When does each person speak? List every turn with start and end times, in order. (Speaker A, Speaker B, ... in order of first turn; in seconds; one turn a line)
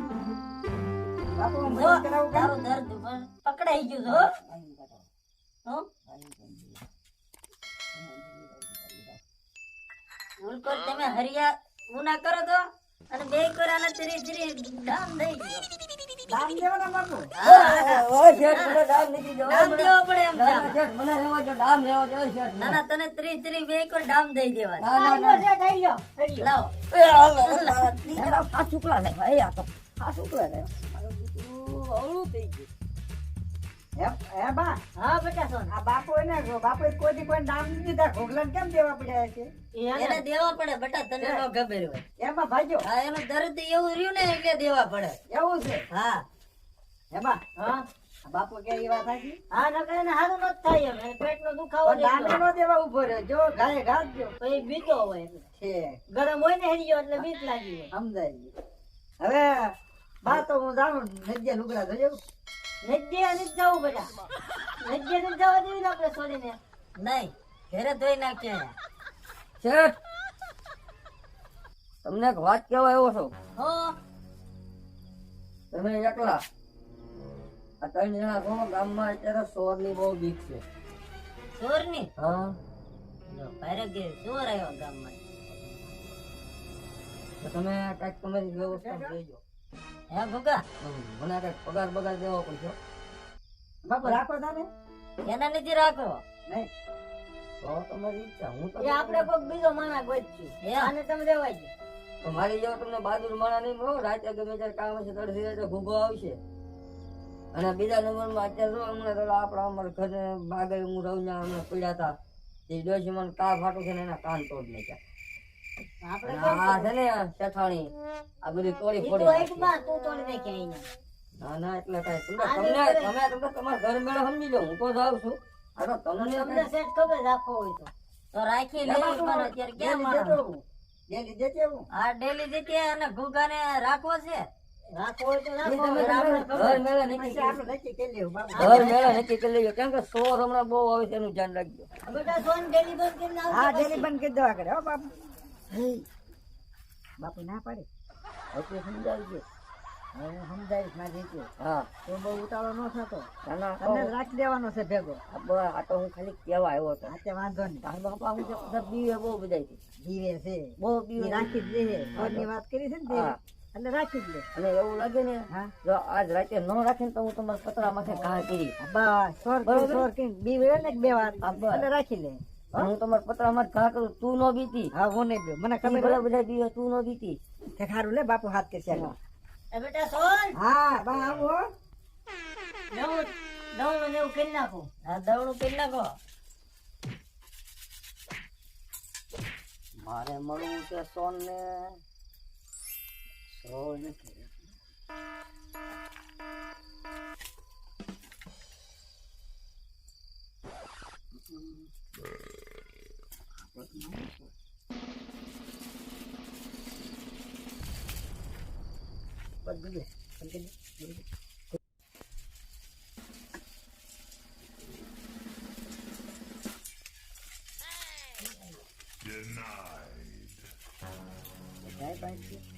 Speaker A: 1.4-2.5
Speaker B: 1.7-4.3
Speaker C: 4.1-5.0
Speaker C: 6.1-6.8
Speaker C: 7.9-9.2
Speaker B: 10.4-15.7
Speaker A: 16.3-17.3
Speaker B: 17.4-18.8
Speaker C: 17.4-22.8
Speaker B: 19.5-20.8
Speaker B: 22.6-24.9
Speaker C: 24.8-25.4
Speaker D: 24.9-26.5
Speaker B: 26.4-26.7
Speaker C: 26.9-32.7
Speaker B: 27.4-27.9
Speaker A: 28.1-28.4
Speaker A: 34.0-34.8
Speaker D: 35.0-35.7
Speaker A: 35.7-39.5
Speaker D: 39.8-40.2
Speaker B: 40.0-42.0
Speaker A: 42.2-42.9
Speaker B: 42.8-45.2
Speaker A: 45.3-45.9
Speaker B: 45.9-46.2
Speaker A: 47.1-47.4
Speaker D: 47.6-47.8
Speaker A: 48.3-49.4
Speaker D: 49.5-52.4
Speaker A: 51.9-54.3
Speaker D: 54.4-55.5
Speaker A: 55.6-56.0
Speaker D: 56.1-57.9
Speaker A: 57.9-58.5
Speaker A: 59.2-59.7
Speaker A: 60.2-62.2
Speaker D: 62.8-64.1
Speaker D: 64.8-66.6
Speaker B: 67.0-68.8
Speaker C: 69.6-70.0
Speaker C: 72.0-73.3
Speaker C: 75.7-76.4
Speaker C: 77.8-80.6
Speaker B: 81.6-82.1
Speaker C: 82.2-82.5
Speaker B: 83.3-85.2
Speaker C: 87.4-89.4
Speaker A: 88.6-89.2
Speaker B: 90.1-90.7
Speaker C: 90.8-92.8
Speaker A: 93.8-94.7
Speaker B: 95.2-96.2
Speaker C: 97.6-99.3
Speaker D: 98.8-101.7
Speaker B: 100.6-100.9
Speaker C: 102.2-106.4
Speaker C: 107.5-112.1
Speaker C: 112.7-115.0
Speaker D: 116.0-116.9
Speaker C: 116.2-117.9
Speaker C: 118.4-119.7
Speaker D: 119.0-120.9
Speaker C: 121.4-126.7
Speaker D: 122.4-123.1
Speaker D: 126.2-127.9
Speaker B: 128.3-130.4
Speaker C: 128.8-129.6
Speaker A: 129.8-131.9
Speaker B: 131.9-134.5
Speaker D: 134.9-136.8
Speaker C: 135.6-137.6
Speaker B: 135.9-136.6
Speaker A: 136.5-139.1
Speaker D: 138.5-138.9
Speaker C: 138.6-141.9
Speaker B: 138.8-139.1
Speaker D: 142.1-144.1
Speaker A: 143.5-145.1
Speaker C: 145.7-146.1
Speaker A: 147.2-147.9
Speaker C: 148.5-149.4
Speaker A: 150.1-151.5
Speaker C: 151.6-151.9
Speaker A: 152.1-153.3
Speaker C: 153.4-154.1
Speaker A: 153.8-155.2
Speaker C: 155.3-157.1
Speaker A: 157.1-157.9
Speaker C: 157.8-159.8
Speaker A: 160.0-164.5
Speaker C: 160.8-161.5
Speaker C: 162.2-162.5
Speaker C: 163.1-163.4
Speaker C: 164.6-168.8
Speaker A: 168.8-172.9
Speaker C: 169.6-170.1
Speaker C: 171.4-171.9
Speaker C: 172.8-174.9
Speaker A: 174.9-176.2
Speaker C: 175.8-177.4
Speaker A: 177.8-179.2
Speaker D: 179.7-180.6
Speaker A: 180.6-181.7
Speaker D: 182.9-184.9
Speaker B: 185.0-186.1
Speaker C: 190.0-192.0
Speaker C: 193.5-194.5
Speaker A: 201.5-201.8
Speaker A: 203.7-204.5
Speaker A: 209.7-211.2
Speaker A: 221.9-222.6